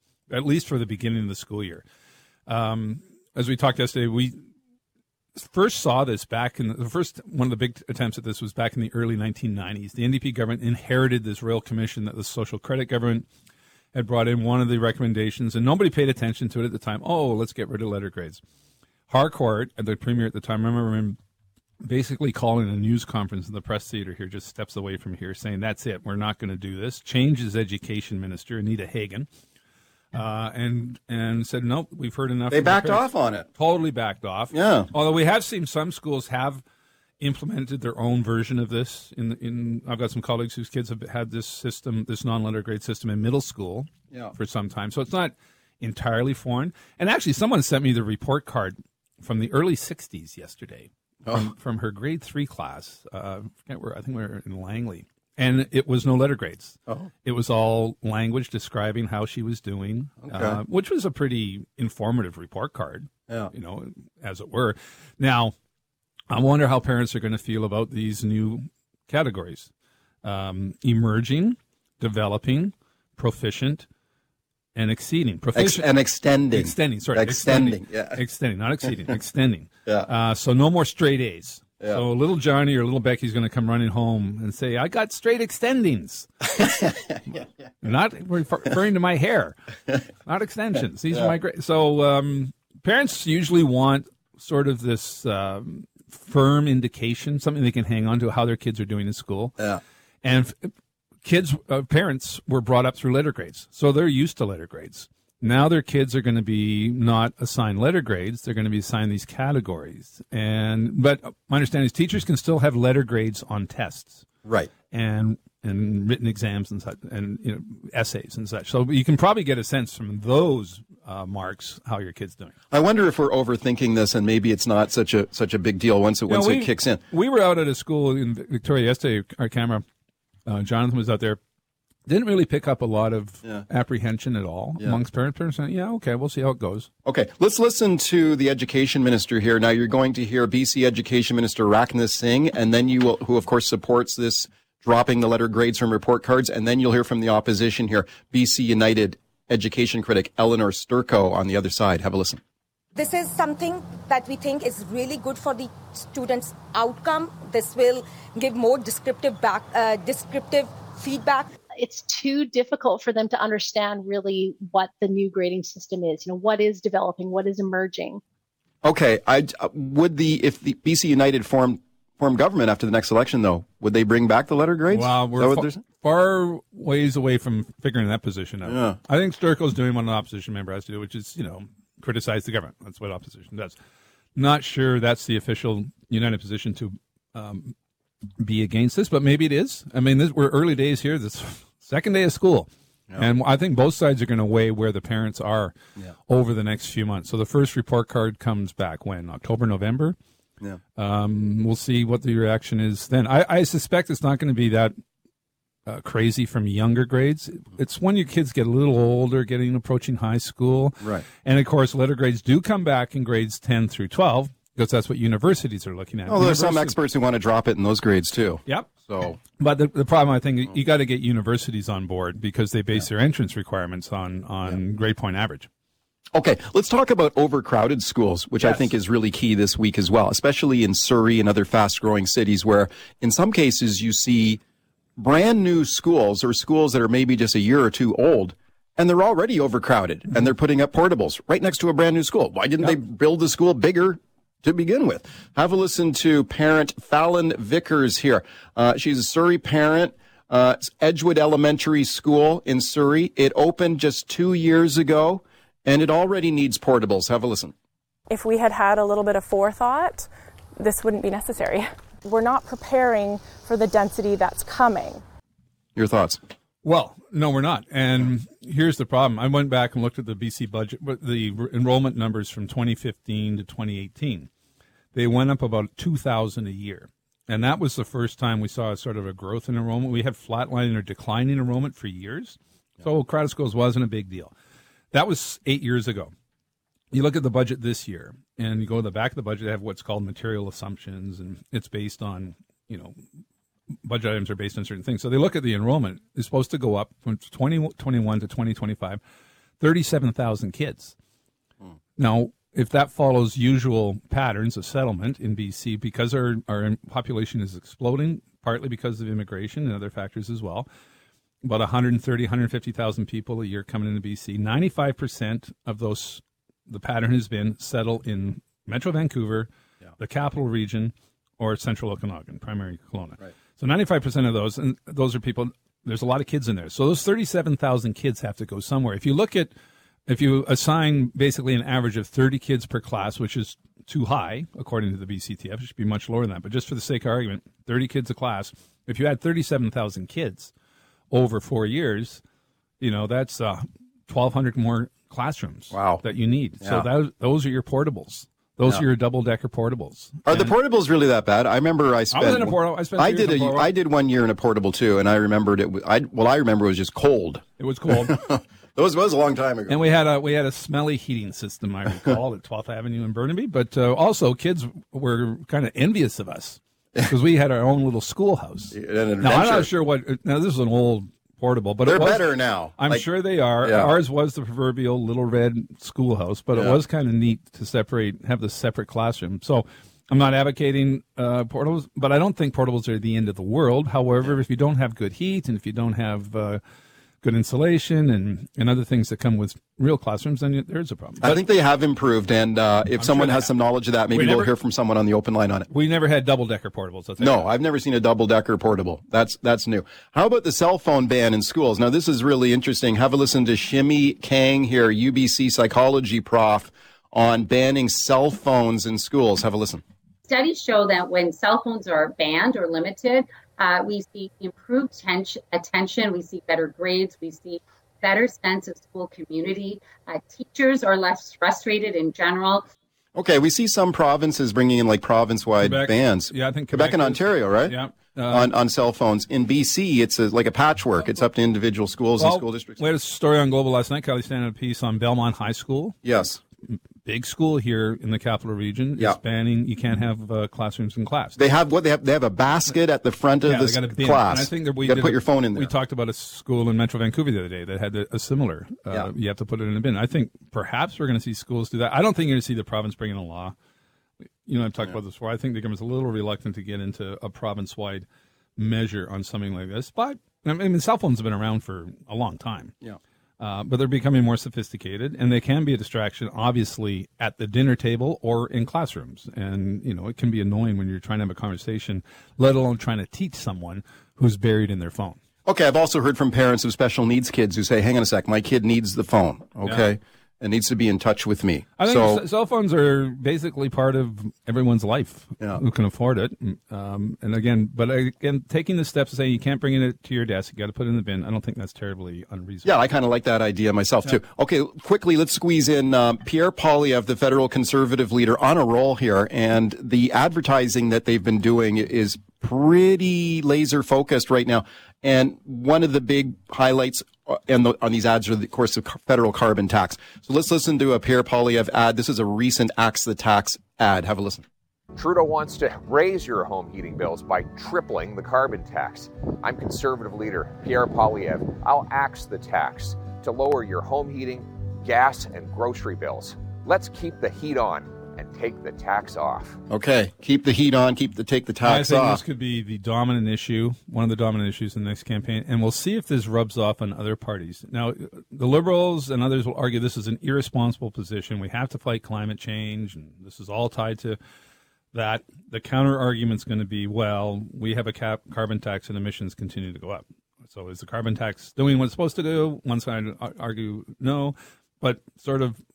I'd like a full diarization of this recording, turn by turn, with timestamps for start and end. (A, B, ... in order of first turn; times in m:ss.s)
0:00.3-0:01.8 A
0:02.5-0:04.4 A
0:05.4-0:13.2 A
0:13.9-0:18.4 A
0:19.1-0:21.2 A
0:21.8-0:29.3 A
0:30.1-0:36.6 A
0:32.5-0:33.5 B
0:34.5-0:34.9 B
0:37.2-1:05.5 A
0:51.2-0:51.5 B
1:00.3-1:00.6 B
1:06.3-1:09.7 A
1:10.2-1:13.8 A
1:14.7-1:15.9 A
1:15.5-1:18.2 B
1:16.5-1:26.4 A
1:26.6-1:27.4 B
1:27.8-1:29.5 A
1:30.2-1:39.6 A
1:40.2-1:40.7 A
1:41.2-1:54.2 A
1:54.9-2:02.5 A
2:02.7-2:07.0 B
2:06.3-2:09.8 A
2:10.5-2:11.4 A
2:12.1-2:16.9 A
2:17.0-2:32.4 B
2:33.0-2:41.5 C
2:41.7-2:48.2 D
2:48.8-2:55.8 B
2:54.9-3:03.7 A
2:58.6-2:59.0 B
3:04.4-3:07.7 A
3:08.4-3:15.8 A
3:16.3-3:20.2 A
3:21.0-3:24.9 A
3:25.9-3:36.9 A
3:36.3-3:39.4 B
3:38.6-3:38.9 A
3:39.6-3:45.7 A
3:46.3-3:54.6 B
3:48.6-3:48.9 A
3:55.2-4:17.7 B
4:18.3-4:25.2 E
4:26.0-4:26.4 B
4:26.8-4:34.5 A
4:35.1-4:44.5 A
4:45.1-4:46.3 A
4:47.1-4:53.2 A
4:54.0-4:59.2 A
4:59.8-5:01.1 A
5:02.2-5:10.9 A
5:11.6-5:29.7 A
5:30.3-5:40.7 A
5:41.3-5:42.4 A
5:43.0-5:50.7 A
5:45.9-5:46.2 B
5:50.5-6:00.0 B
5:52.3-5:53.9 A
5:57.8-5:58.4 A
5:59.9-6:26.8 A
6:08.9-6:09.9 B
6:12.0-6:13.2 B
6:13.8-6:14.1 B
6:16.7-6:17.0 B
6:27.4-6:31.6 A
6:31.4-6:35.9 B
6:33.2-6:33.7 A
6:34.3-6:34.7 A
6:35.9-6:37.7 A
6:37.4-6:50.0 B
6:50.5-7:02.8 F
7:03.4-7:08.0 B
7:05.8-7:08.7 A
7:08.5-7:13.0 B
7:12.4-7:16.2 A
7:16.2-7:16.6 B
7:17.2-7:21.6 A
7:21.6-7:25.9 B
7:23.6-7:33.7 A
7:34.7-7:38.2 A
7:38.8-7:43.0 A
7:43.6-7:55.4 A
7:55.6-8:02.4 B
8:02.0-8:12.9 A
8:12.8-8:34.6 B
8:35.1-8:49.8 G
8:49.9-8:52.4 B
8:51.8-9:04.4 A
9:05.1-9:15.8 A